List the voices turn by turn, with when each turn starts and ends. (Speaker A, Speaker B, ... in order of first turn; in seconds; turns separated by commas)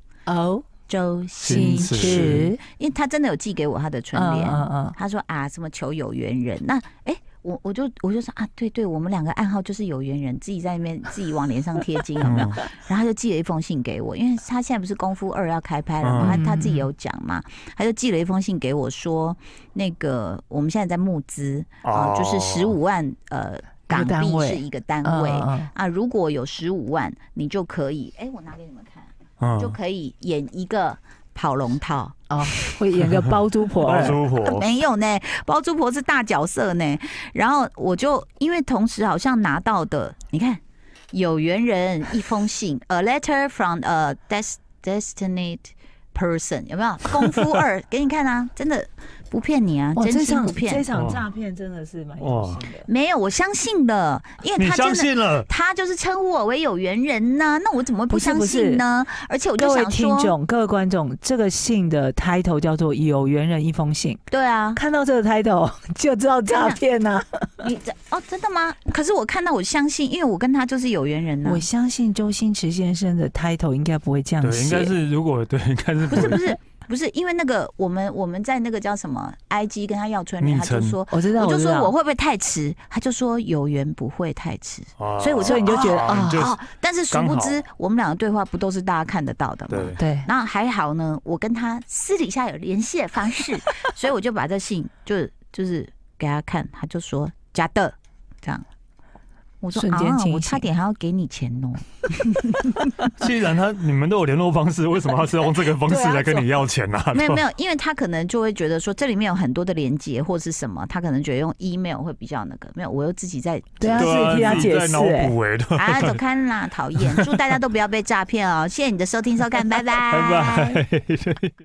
Speaker A: 0.2-0.7, Speaker B: 0.9-32.1, Speaker C: 1.4-2.5, Speaker A: 1.4-2.6, Speaker A: 4.1-5.0, Speaker C: 12.2-12.6, Speaker C: 16.0-16.4, Speaker A: 16.2-16.9, Speaker C: 21.8-22.7, Speaker A: 23.9-25.7, Speaker C: 29.4-29.8, Speaker A: 32.3-34.2, Speaker C: 33.8-34.6, Speaker B: 34.3-50.8, Speaker A: 49.9-52.9, Speaker C: 50.9-51.2, Speaker C: 52.2-52.6, Speaker B: 52.9-60.3, Speaker C: 54.6-55.5, Speaker A: 58.1-58.8, Speaker A: 59.6-64.2, Speaker B: 64.3-64.8, Speaker A: 64.7-67.5, Speaker B: 66.5-66.8, Speaker B: 67.6-71.6, Speaker A: 71.4-74.9, Speaker C: 74.4-76.5, Speaker B: 76.1-98.6, Speaker C: 80.4-81.0, Speaker A: 81.1-81.9, Speaker C: 85.0-86.6, Speaker A: 85.2-86.5, Speaker C: 87.1-87.6, Speaker C: 89.7-90.0, Speaker A: 90.0-90.3, Speaker B: 99.6-102.9, Speaker A: 99.7-100.7, Speaker C: 103.1-107.4, Speaker B: 105.8-106.5, Speaker B: 107.1-114.7, Speaker A: 113.8-115.3, Speaker C: 114.0-116.2, Speaker B: 115.7-120.8, Speaker C: 117.0-117.4, Speaker C: 120.0-121.5